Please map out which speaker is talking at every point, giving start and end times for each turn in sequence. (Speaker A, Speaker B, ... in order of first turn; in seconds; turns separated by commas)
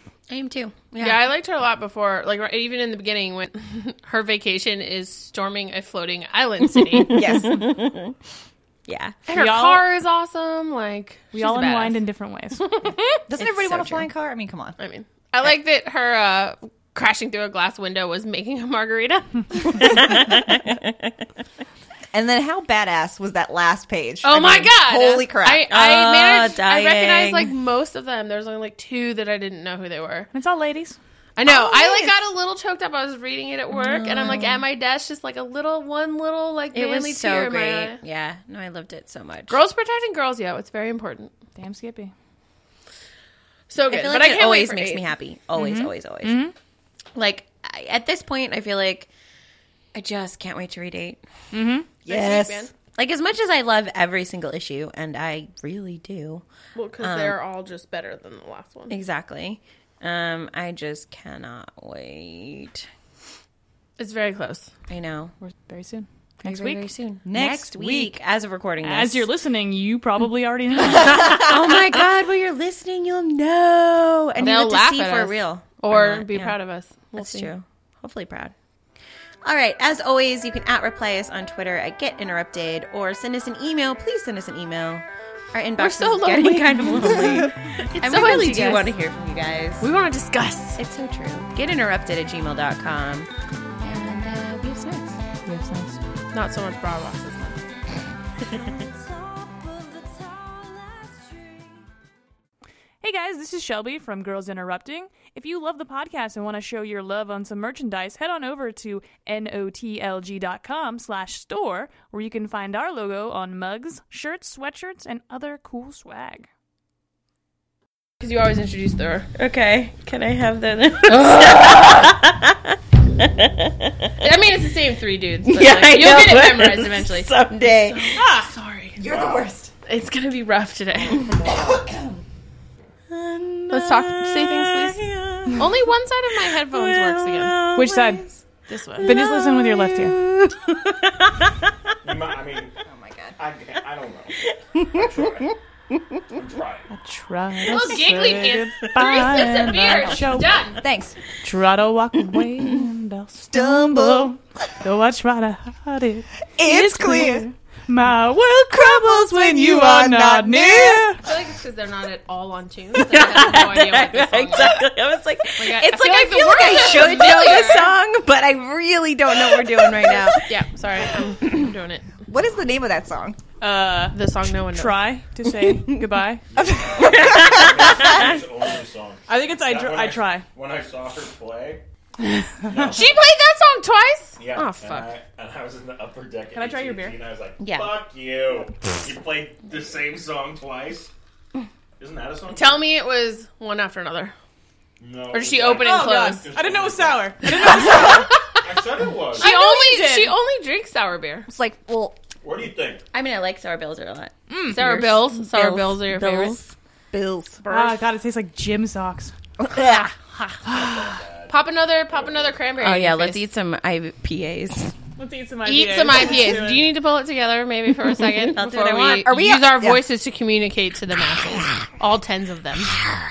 Speaker A: 0.3-1.3, Speaker B: 1.0-7.4, Speaker C: 7.1-7.7, Speaker A: 7.1-8.1, Speaker A: 8.9-9.2, Speaker B: 9.3-12.0, Speaker D: 9.3-9.8, Speaker D: 11.3-12.6, Speaker B: 12.6-13.2, Speaker C: 13.3-14.8, Speaker A: 13.4-14.1, Speaker B: 14.8-19.9, Speaker A: 19.8-21.1, Speaker C: 22.1-25.7, Speaker B: 24.2-30.3, Speaker A: 25.7-27.5, Speaker D: 30.3-31.0, Speaker B: 31.4-38.0, Speaker C: 31.4-32.2, Speaker A: 33.7-34.6, Speaker A: 36.7-39.6, Speaker B: 39.5-41.3, Speaker D: 41.5-42.1, Speaker B: 43.7-45.1, Speaker A: 43.9-46.4, Speaker D: 45.6-46.5, Speaker A: 47.1-49.1, Speaker A: 49.9-51.2, Speaker D: 51.5-51.9, Speaker C: 52.0-52.6, Speaker B: 52.1-52.8, Speaker A: 52.8-56.4, Speaker B: 56.8-59.0, Speaker A: 57.0-57.4, Speaker A: 58.9-62.9, Speaker B: 64.0-64.7, Speaker A: 64.9-65.3, Speaker D: 65.4-66.8, Speaker A: 66.4-69.3, Speaker C: 67.3-68.2, Speaker D: 68.8-71.4, Speaker A: 70.9-76.6, Speaker B: 74.4-77.5, Speaker A: 77.2-78.5, Speaker A: 79.4-89.9, Speaker B: 85.8-89.0, Speaker B: 89.8-90.8, Speaker A: 90.8-93.3, Speaker A: 93.8-95.2, Speaker D: 95.4-96.0, Speaker B: 96.3-97.6, Speaker D: 103.0-116.5, Speaker B: 118.2-119.3, Speaker A: 119.3-124.1, Speaker B: 121.1-122.1, Speaker B: 124.2-129.0, Speaker A: 125.5-128.2, Speaker D: 128.2-128.5, Speaker C: 129.0-129.7, Speaker E: 129.1-129.5, Speaker B: 129.9-131.3, Speaker C: 131.4-132.2, Speaker A: 133.1-135.7, Speaker B: 133.7-135.0, Speaker B: 135.6-137.6, Speaker A: 136.6-138.4, Speaker D: 137.7-138.3, Speaker B: 138.7-139.2, Speaker A: 139.0-141.5, Speaker D: 139.0-140.2, Speaker E: 142.0-142.8, Speaker C: 142.8-143.4, Speaker E: 143.4-145.6, Speaker E: 146.3-146.9, Speaker D: 146.9-150.6, Speaker B: 147.6-150.8, Speaker C: 149.8-151.2, Speaker D: 151.4-161.2, Speaker C: 153.4-154.3, Speaker C: 156.6-157.5, Speaker C: 158.7-161.1, Speaker B: 161.2-164.8, Speaker A: 162.9-170.5, Speaker B: 165.6-168.0, Speaker B: 170.5-172.2, Speaker C: 172.3-173.4, Speaker D: 173.6-174.2, Speaker B: 174.1-175.1, Speaker D: 174.7-176.4, Speaker E: 176.5-181.8, Speaker C: 176.6-178.0, Speaker A: 177.0-178.2, Speaker D: 179.3-180.5, Speaker D: 182.2-182.5, Speaker E: 182.7-183.2, Speaker B: 182.9-185.2, Speaker E: 184.4-191.1, Speaker D: 186.5-187.2, Speaker A: 187.6-187.9, Speaker E: 192.0-192.9, Speaker B: 192.5-194.3, Speaker E: 195.0-197.9, Speaker B: 195.3-196.5, Speaker D: 195.8-198.3, Speaker B: 197.7-198.6, Speaker E: 198.6-199.5, Speaker D: 199.4-200.3, Speaker B: 199.4-201.5, Speaker C: 201.5-202.2, Speaker E: 202.4-203.0, Speaker A: 203.1-206.6, Speaker D: 204.5-204.9, Speaker B: 204.7-206.7, Speaker C: 207.1-208.0, Speaker D: 207.7-209.3, Speaker C: 209.6-210.1, Speaker B: 209.9-210.6, Speaker E: 210.6-212.8, Speaker D: 210.7-211.0, Speaker B: 211.5-213.5, Speaker A: 212.8-214.9, Speaker D: 215.2-216.9, Speaker B: 215.7-222.9, Speaker A: 218.3-219.3, Speaker C: 219.0-220.0